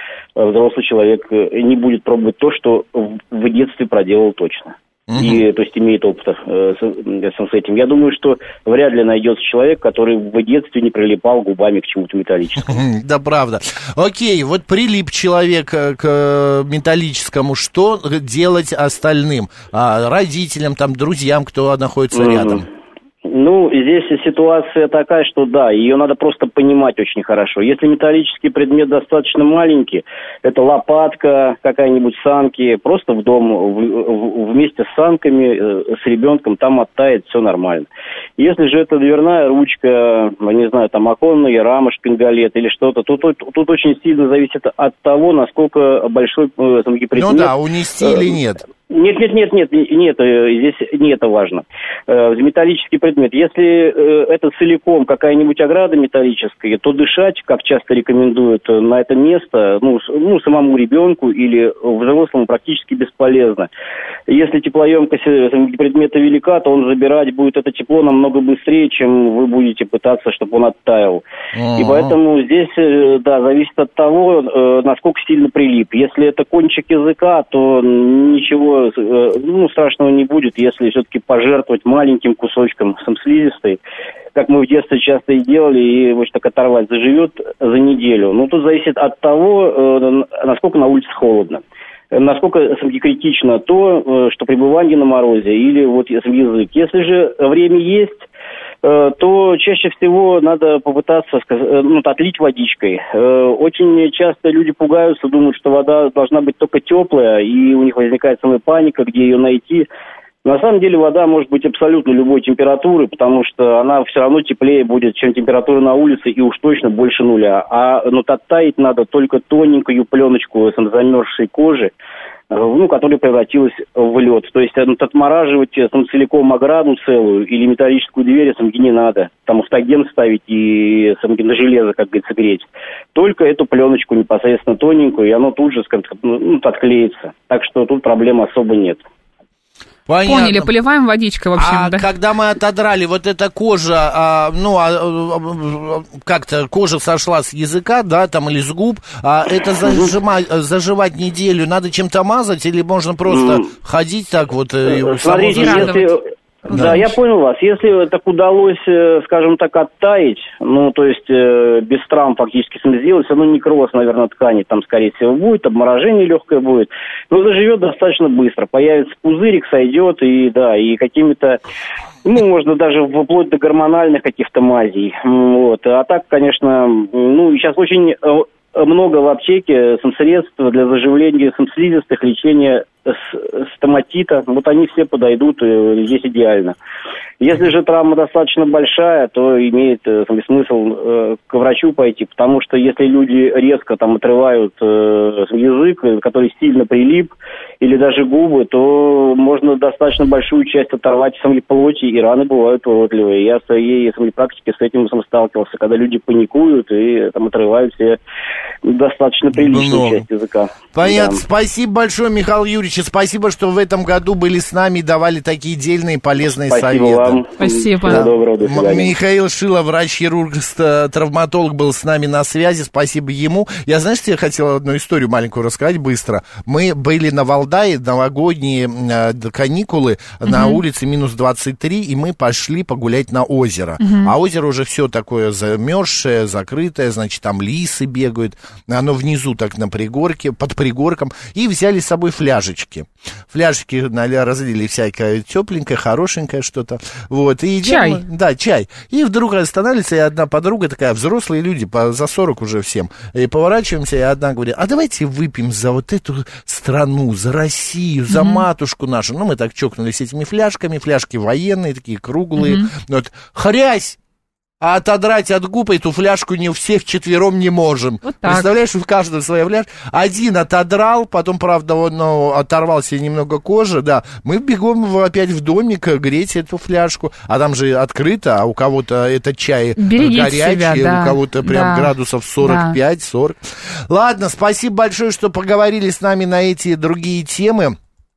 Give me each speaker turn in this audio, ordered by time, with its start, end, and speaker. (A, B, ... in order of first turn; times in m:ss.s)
0:00.4-0:12.8 A
0:05.1-0:05.4 B
0:12.6-0:22.6 B
0:22.1-0:22.6 A
0:23.2-0:48.3 A
0:47.1-0:48.6 B
0:48.9-1:03.7 A
1:04.3-1:11.2 A
1:11.5-1:12.2 B
1:11.8-1:23.8 A
1:24.3-1:38.3 A
1:38.8-1:49.9 A
1:50.4-2:01.9 A
2:02.5-2:19.0 A
2:20.1-2:20.7 B
2:20.2-2:22.0 C
2:21.6-2:36.0 B
2:33.3-2:33.7 A
2:34.8-2:51.6 A
2:35.5-2:37.2 C
2:36.7-2:37.0 B
2:52.2-3:06.8 A
3:07.4-3:28.2 A
3:28.8-3:31.4 A
3:29.5-3:30.2 B
3:30.9-3:37.4 B
3:36.7-3:39.1 A
3:37.6-3:38.3 C
3:38.1-4:24.2 B
3:50.4-3:50.8 C
3:54.0-3:54.3 C
4:07.8-4:08.2 C
4:18.3-4:18.6 C
4:22.6-4:22.9 C
4:24.8-4:48.0 B
4:28.2-4:28.7 C
4:40.0-4:43.0 C